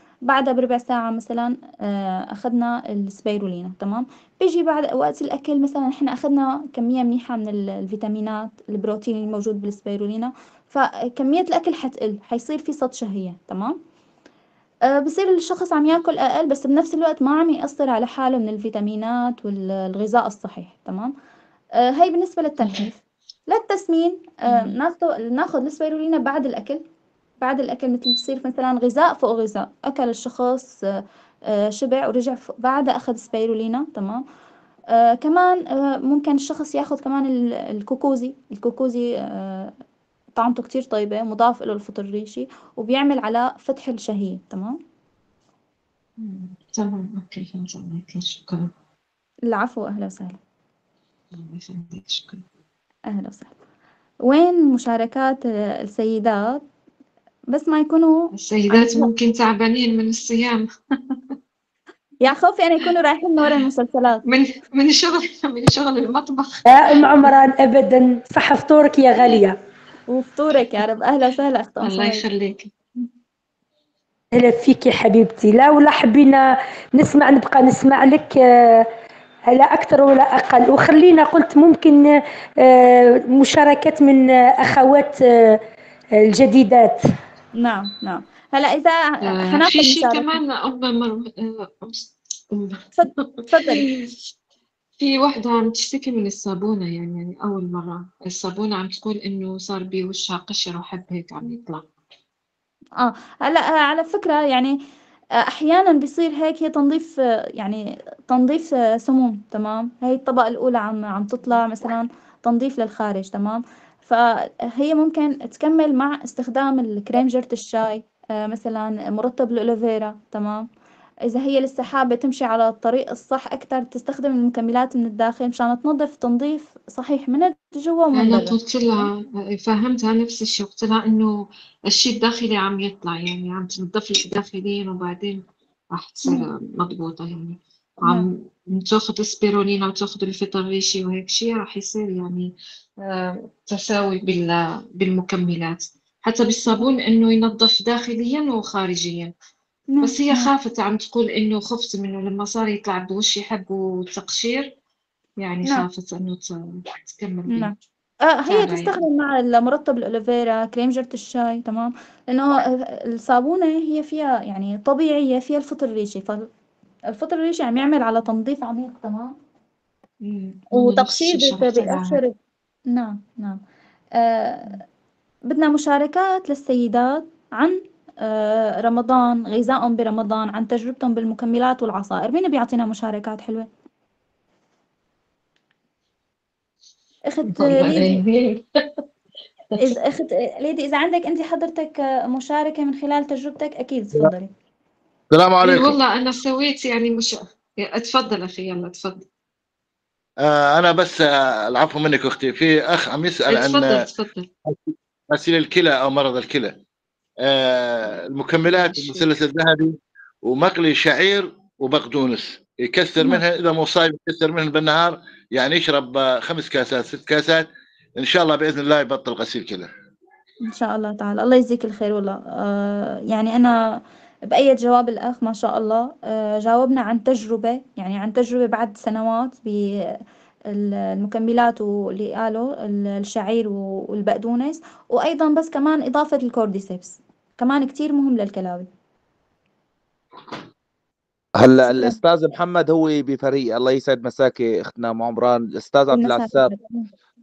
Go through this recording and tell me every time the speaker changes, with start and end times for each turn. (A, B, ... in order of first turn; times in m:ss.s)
0:00.2-0:13.8 A
0:14.8-0:21.1 A
0:21.8-0:26.8 A
0:27.4-0:30.8 A
0:31.5-0:34.2 A
0:34.9-0:39.7 A
0:40.3-0:44.8 A
0:46.2-0:48.7 B
0:49.5-0:50.4 A
0:51.3-0:52.4 B
0:53.1-0:53.5 A
0:54.2-0:56.6 A
0:57.5-0:59.1 A
0:58.3-1:01.2 B
1:02.2-1:04.2 A
1:04.2-1:07.1 B
1:06.7-1:09.6 C
1:10.1-1:12.2 A
1:11.8-1:12.7 B
1:14.3-1:18.9 C
1:19.5-1:25.6 C
1:26.2-1:27.0 C
1:27.6-1:30.4 A
1:29.4-1:34.1 B
1:33.0-1:33.8 A
1:35.0-1:41.9 B
1:43.0-1:44.8 A
1:45.4-2:00.7 A
2:01.3-2:09.0 A
2:08.2-2:11.3 B
2:11.9-2:29.3 B
2:29.9-2:30.5 A
2:30.0-2:34.7 B
2:35.4-2:37.7 B
2:38.3-2:46.5 A
2:38.5-2:39.0 B
2:47.1-2:49.4 A
2:50.2-2:52.2 B
2:50.7-2:52.4 A
2:52.9-2:53.6 A
2:54.2-2:54.8 A
2:55.5-3:03.7 A
3:07.3-3:08.2 A
3:07.5-3:08.8 B
3:09.8-3:14.5 A
3:15.3-3:16.0 D
3:15.6-3:19.3 B
3:20.4-3:24.1 D
3:23.5-3:24.5 B
3:24.7-3:26.8 D
3:27.4-3:39.9 D
3:28.9-3:29.2 B
3:40.7-3:44.0 A
3:44.5-3:50.2 A
3:50.7-3:58.9 A
4:01.6-4:06.7 E
4:01.8-4:02.2 A
4:06.1-4:07.1 A